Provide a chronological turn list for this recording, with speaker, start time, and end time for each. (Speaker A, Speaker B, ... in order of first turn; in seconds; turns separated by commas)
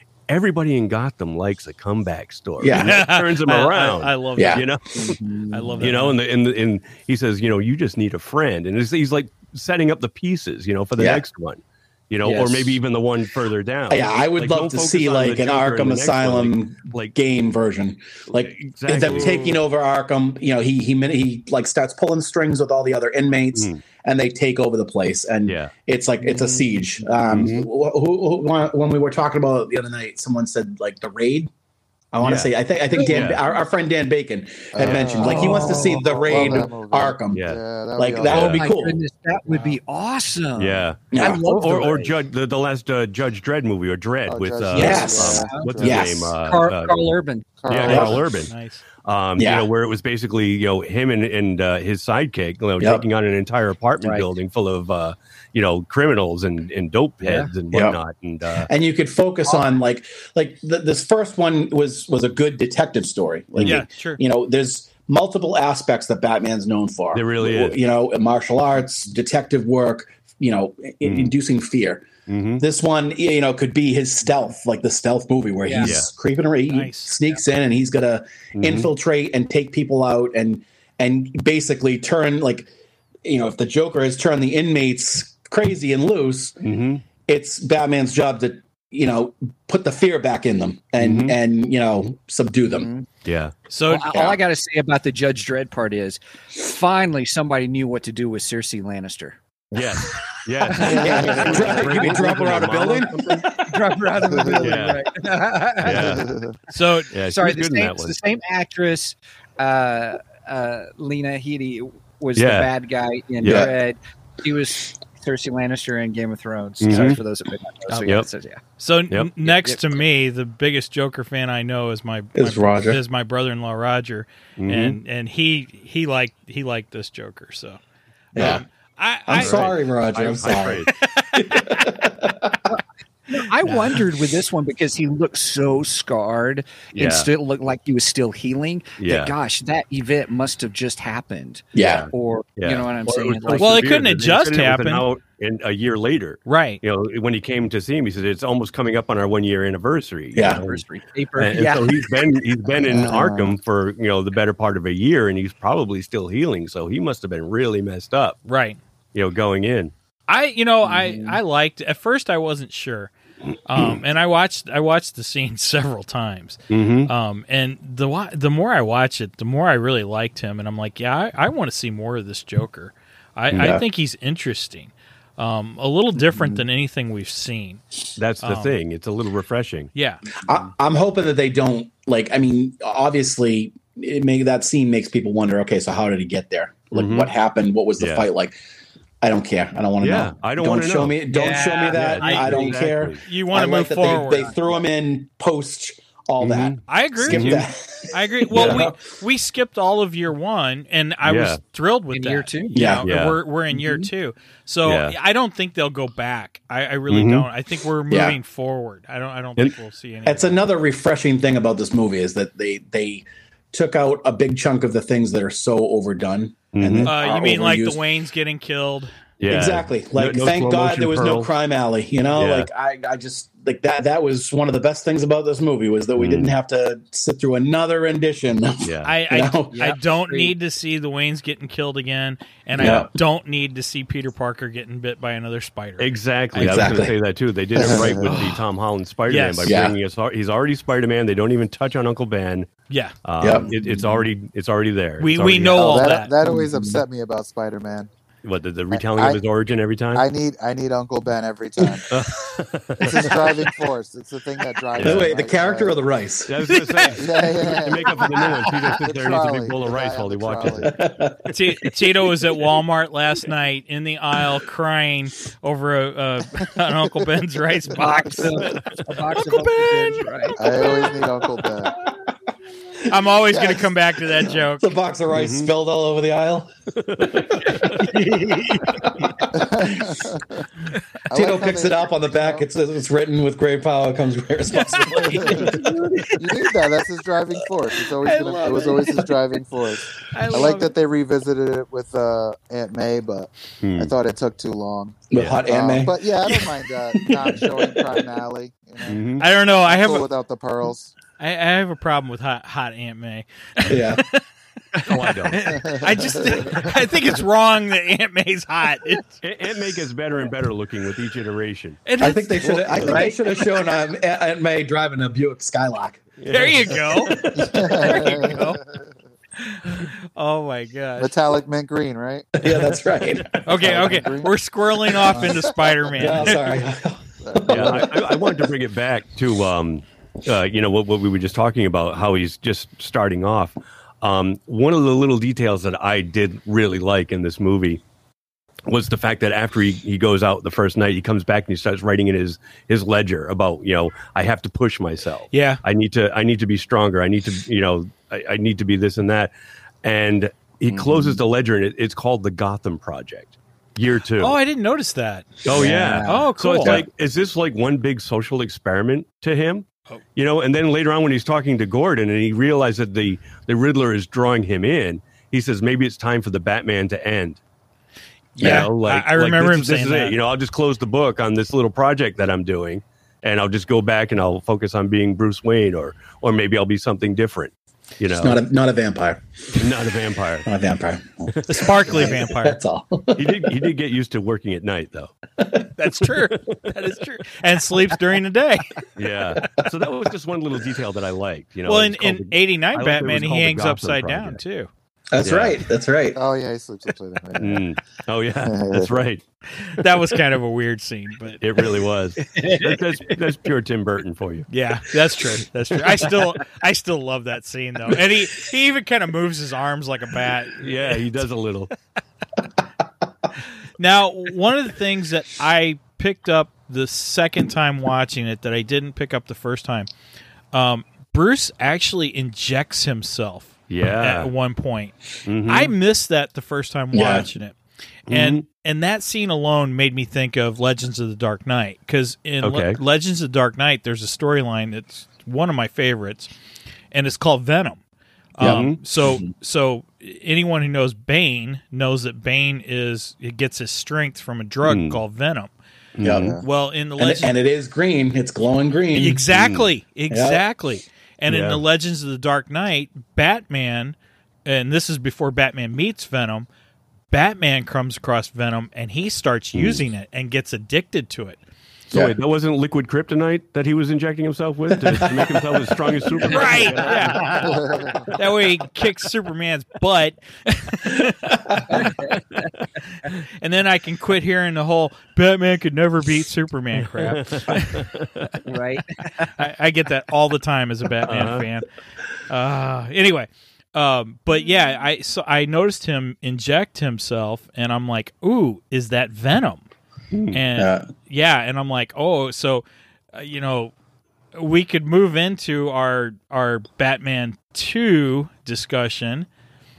Speaker A: 0.3-5.2, Speaker B: 2.6-3.0, Speaker C: 2.7-4.7, Speaker B: 4.4-4.6, Speaker D: 5.0-5.9, Speaker C: 5.5-6.2, Speaker A: 5.8-17.1, Speaker B: 11.0-11.2, Speaker D: 12.2-12.8, Speaker B: 13.9-31.5, Speaker A: 18.4-19.6, Speaker A: 23.5-23.8, Speaker A: 25.5-25.7, Speaker A: 27.3-27.7, Speaker B: 32.1-37.4, Speaker A: 32.2-33.4, Speaker E: 34.7-38.5, Speaker D: 35.1-36.5, Speaker A: 37.3-37.6, Speaker B: 38.0-39.0, Speaker A: 38.3-38.7, Speaker D: 38.4-42.1, Speaker C: 39.5-39.8, Speaker A: 40.6-48.5, Speaker B: 41.1-41.5, Speaker E: 44.3-46.0, Speaker B: 44.7-46.4, Speaker D: 45.2-47.6, Speaker E: 47.6-48.3, Speaker B: 47.8-48.2, Speaker C: 48.5-48.8, Speaker A: 49.0-58.7, Speaker B: 49.4-49.7, Speaker D: 54.0-54.3, Speaker D: 57.2-57.5, Speaker B: 58.7-72.1, Speaker C: 63.6-64.2, Speaker A: 67.1-67.8, Speaker A: 71.0-71.3, Speaker A: 72.3-72.6, Speaker B: 72.6-82.7, Speaker D: 75.6-75.9, Speaker A: 75.8-76.1, Speaker C: 76.7-77.3, Speaker A: 78.6-78.9, Speaker B: 83.2-86.6, Speaker A: 86.6-87.0, Speaker B: 87.3-92.9, Speaker A: 91.0-91.4, Speaker D: 92.7-93.1, Speaker A: 93.2-93.5, Speaker C: 93.7-94.3, Speaker D: 93.9-99.4, Speaker A: 99.7-103.6, Speaker D: 100.7-102.6, Speaker B: 100.8-103.6, Speaker E: 100.9-101.7, Speaker D: 103.5-106.3, Speaker E: 104.3-104.8, Speaker A: 104.6-105.0, Speaker A: 105.8-106.3, Speaker E: 105.9-106.5, Speaker C: 106.7-107.1, Speaker A: 107.1-108.2, Speaker D: 107.2-118.6, Speaker A: 112.3-112.7, Speaker A: 113.4-113.7, Speaker B: 113.5-113.7, Speaker A: 116.8-117.2, Speaker C: 117.9-118.2, Speaker C: 118.8-127.8, Speaker D: 119.5-120.0, Speaker B: 122.3-123.0, Speaker A: 124.6-125.0, Speaker C: 128.3-129.7, Speaker B: 128.3-128.6, Speaker B: 129.3-132.7, Speaker A: 129.4-130.9, Speaker C: 130.9-131.9, Speaker D: 132.7-143.9, Speaker A: 136.9-137.3, Speaker A: 139.0-139.3, Speaker B: 141.8-142.1, Speaker A: 141.8-150.8, Speaker C: 143.6-145.1, Speaker C: 146.5-146.8, Speaker B: 150.4-150.6, Speaker D: 150.4-152.3, Speaker A: 151.4-158.4, Speaker E: 152.9-153.6, Speaker C: 158.5-158.8, Speaker A: 159.1-159.9, Speaker C: 160.3-163.1, Speaker D: 160.8-161.4, Speaker C: 163.7-177.8, Speaker A: 166.7-167.1, Speaker B: 173.6-173.8, Speaker A: 178.2-179.9, Speaker C: 178.4-178.8, Speaker C: 179.9-180.2, Speaker B: 180.5-188.6, Speaker A: 186.9-187.3, Speaker A: 188.0-188.3, Speaker B: 189.2-199.0, Speaker A: 190.0-191.2, Speaker D: 191.3-192.7, Speaker A: 191.9-193.2, Speaker C: 192.2-192.5, Speaker C: 193.2-194.5, Speaker A: 196.4-197.7, Speaker C: 196.9-210.6, Speaker A: 198.5-198.9, Speaker A: 201.2-201.6, Speaker D: 202.1-203.0, Speaker B: 202.7-203.1, Speaker A: 203.1-203.4, Speaker D: 203.7-204.1, Speaker A: 204.8-205.2, Speaker A: 207.1-207.5, Speaker B: 208.1-208.4, Speaker B: 210.3-218.0, Speaker A: 216.7-217.1, Speaker C: 217.0-219.2, Speaker A: 219.4-221.5, Speaker B: 219.5-229.7, Speaker A: 222.4-222.7, Speaker A: 226.2-226.5, Speaker A: 228.8-229.1, Speaker C: 229.1-236.1, Speaker D: 229.7-230.5, Speaker A: 232.8-233.1, Speaker B: 232.8-233.1, Speaker A: 236.0-242.7, Speaker B: 236.6-237.1, Speaker E: 237.8-238.4, Speaker B: 237.9-238.1, Speaker C: 239.3-239.8, Speaker B: 239.7-239.9, Speaker C: 242.9-243.1, Speaker A: 243.2-246.1, Speaker B: 243.4-244.2, Speaker C: 245.2-246.3, Speaker E: 245.7-248.1, Speaker B: 246.4-247.0, Speaker A: 248.4-250.3, Speaker E: 248.9-249.4, Speaker E: 250.1-252.1, Speaker A: 252.1-253.7, Speaker E: 253.0-256.0, Speaker A: 254.9-255.3, Speaker B: 255.0-256.6, Speaker A: 256.5-260.9, Speaker C: 256.7-257.1, Speaker E: 257.2-260.9, Speaker B: 260.8-261.9, Speaker C: 261.5-268.7, Speaker D: 267.9-270.8, Speaker E: 270.6-272.0, Speaker C: 273.1-275.0, Speaker B: 273.4-273.8, Speaker B: 274.4-278.1, Speaker A: 275.3-275.7, Speaker A: 277.0-278.1, Speaker D: 277.8-279.4, Speaker B: 279.1-280.3, Speaker E: 279.5-280.6, Speaker E: 281.3-282.6, Speaker B: 281.3-285.9, Speaker D: 285.2-286.6, Speaker E: 285.4-285.7, Speaker E: 286.4-299.2, Speaker C: 288.2-289.2, Speaker C: 290.3-290.9, Speaker A: 293.8-294.1, Speaker B: 295.3-296.5, Speaker A: 299.1-299.4, Speaker C: 299.4-300.3, Speaker E: 299.9-301.1, Speaker C: 301.4-304.4, Speaker B: 303.9-304.2, Speaker C: 304.9-309.4, Speaker A: 305.0-306.0, Speaker E: 305.7-306.7, Speaker A: 306.7-306.9, Speaker A: 309.4-312.0, Speaker C: 312.1-313.4, Speaker B: 312.2-316.3, Speaker A: 312.9-313.2, Speaker A: 316.4-318.1, Speaker C: 316.5-318.8, Speaker E: 317.6-318.8, Speaker C: 319.6-321.4, Speaker E: 321.2-322.5, Speaker B: 322.6-323.9, Speaker C: 323.6-326.8, Speaker E: 323.7-324.5, Speaker E: 325.2-325.7, Speaker B: 326.1-328.6, Speaker E: 327.4-328.1, Speaker A: 327.7-338.0, Speaker A: 338.9-349.5, Speaker C: 345.5-345.8, Speaker A: 350.0-354.6, Speaker C: 354.4-355.6, Speaker A: 355.6-367.6, Speaker D: 355.7-356.9, Speaker C: 356.2-357.0, Speaker C: 368.6-370.4, Speaker B: 368.6-368.9, Speaker A: 368.6-378.6, Speaker B: 378.3-379.9, Speaker A: 379.7-380.7, Speaker B: 380.7-383.7, Speaker C: 381.7-382.8, Speaker A: 383.4-385.3, Speaker B: 385.6-385.9, Speaker C: 386.0-389.1, Speaker A: 386.5-386.9, Speaker A: 389.2-394.6, Speaker C: 391.9-394.9, Speaker B: 395.3-396.4, Speaker A: 395.4-395.8, Speaker E: 396.4-397.9, Speaker A: 397.6-399.4, Speaker E: 398.6-399.2, Speaker C: 399.8-401.6, Speaker A: 401.6-404.7, Speaker D: 402.4-403.2, Speaker C: 404.7-411.2, Speaker A: 410.8-411.9, Speaker C: 414.0-420.1, Speaker C: 420.7-436.5, Speaker A: 423.9-424.5, Speaker A: 425.5-425.9, Speaker B: 427.1-427.5, Speaker A: 428.3-428.6, Speaker A: 432.6-433.0, Speaker C: 437.1-438.0, Speaker C: 438.6-445.7, Speaker B: 438.6-439.5, Speaker A: 438.6-439.0, Speaker A: 444.9-445.2, Speaker A: 446.2-446.6, Speaker B: 446.2-446.5, Speaker E: 446.3-446.6, Speaker C: 446.6-447.6, Speaker B: 447.2-449.4, Speaker C: 449.1-456.7, Speaker A: 449.5-449.9, Speaker B: 450.3-450.6, Speaker A: 451.5-451.8, Speaker C: 457.3-461.6, Speaker A: 459.7-460.0, Speaker A: 462.1-467.7, Speaker B: 465.1-465.5, Speaker C: 466.5-472.2, Speaker D: 467.4-467.8, Speaker E: 467.8-468.2, Speaker D: 471.9-472.4, Speaker C: 473.1-478.1, Speaker A: 477.1-478.5, Speaker D: 478.6-479.5, Speaker C: 479.4-481.9, Speaker A: 481.2-481.6, Speaker C: 482.5-489.9, Speaker A: 490.3-490.6, Speaker C: 490.5-493.9, Speaker B: 490.8-491.1, Speaker C: 494.6-499.5